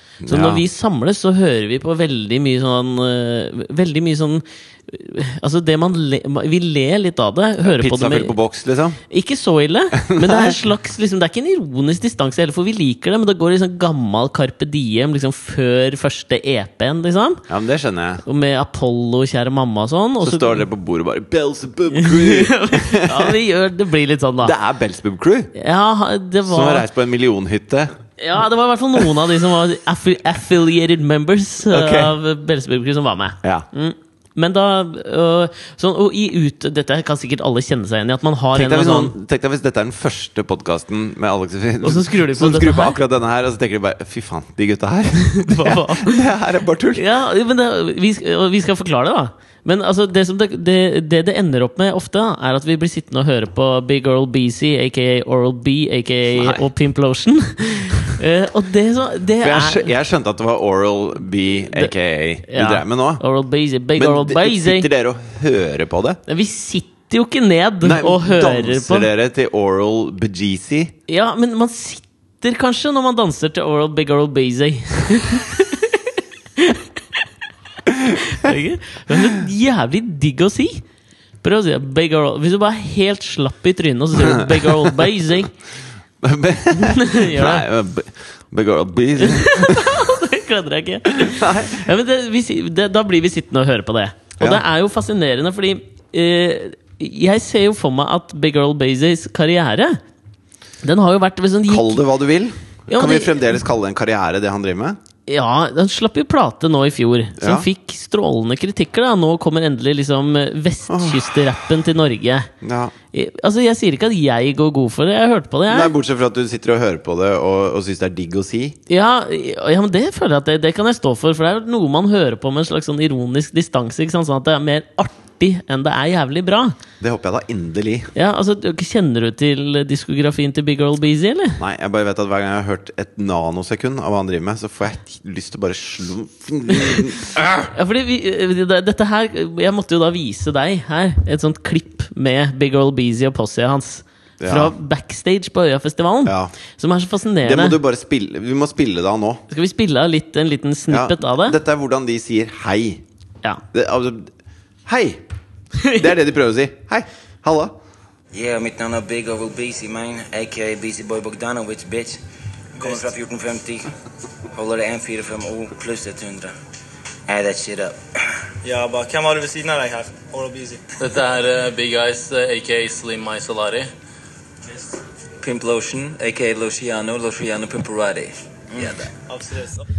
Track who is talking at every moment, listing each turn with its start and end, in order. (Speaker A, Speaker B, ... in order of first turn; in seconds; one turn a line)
Speaker A: 0.2-0.6
Speaker B: 0.3-8.3
Speaker A: 7.6-9.0
Speaker B: 9.1-17.4
Speaker A: 9.9-10.6
Speaker A: 17.5-18.2
Speaker B: 18.2-20.6
Speaker A: 20.2-23.4
Speaker B: 21.9-24.5
Speaker A: 24.4-25.5
Speaker B: 25.6-26.9
Speaker A: 26.5-27.9
Speaker B: 28.2-39.1
Speaker A: 31.7-32.1
Speaker A: 38.5-47.0
Speaker B: 41.8-43.0
Speaker B: 45.4-46.2
Speaker B: 47.0-59.9
Speaker A: 56.4-56.6
Speaker A: 59.4-63.2
Speaker B: 62.5-64.9
Speaker A: 64.0-66.2
Speaker B: 66.3-69.1
Speaker A: 67.8-70.9
Speaker B: 71.1-76.0
Speaker B: 78.1-80.8
Speaker B: 81.4-85.5
Speaker A: 84.2-85.0
Speaker A: 86.2-89.9
Speaker B: 86.7-87.7
Speaker B: 89.2-100.0
Speaker A: 91.2-91.9
Speaker A: 94.4-94.6
Speaker B: 100.8-102.0
Speaker A: 101.7-105.0
Speaker B: 102.9-103.5
Speaker B: 105.3-112.5
Speaker A: 107.4-107.7
Speaker A: 110.9-111.6
Speaker A: 112.6-112.9
Speaker B: 113.1-115.9
Speaker A: 115.7-118.8
Speaker B: 118.9-126.8
Speaker A: 127.0-128.1
Speaker B: 128.2-131.6
Speaker A: 131.6-137.7
Speaker B: 137.7-147.8
Speaker A: 144.4-144.7
Speaker A: 146.2-146.5
Speaker A: 147.4-149.4
Speaker B: 149.5-151.6
Speaker A: 150.9-153.0
Speaker A: 153.7-154.3
Speaker A: 154.9-155.2
Speaker B: 155.8-156.1
Speaker A: 156.0-157.8
Speaker C: 158.3-162.2
Speaker C: 162.7-163.9
Speaker C: 164.5-166.5
Speaker C: 167.3-168.0
Speaker D: 168.6-171.0
Speaker E: 171.0-173.9
Speaker C: 175.4-179.1
Speaker D: 179.3-179.8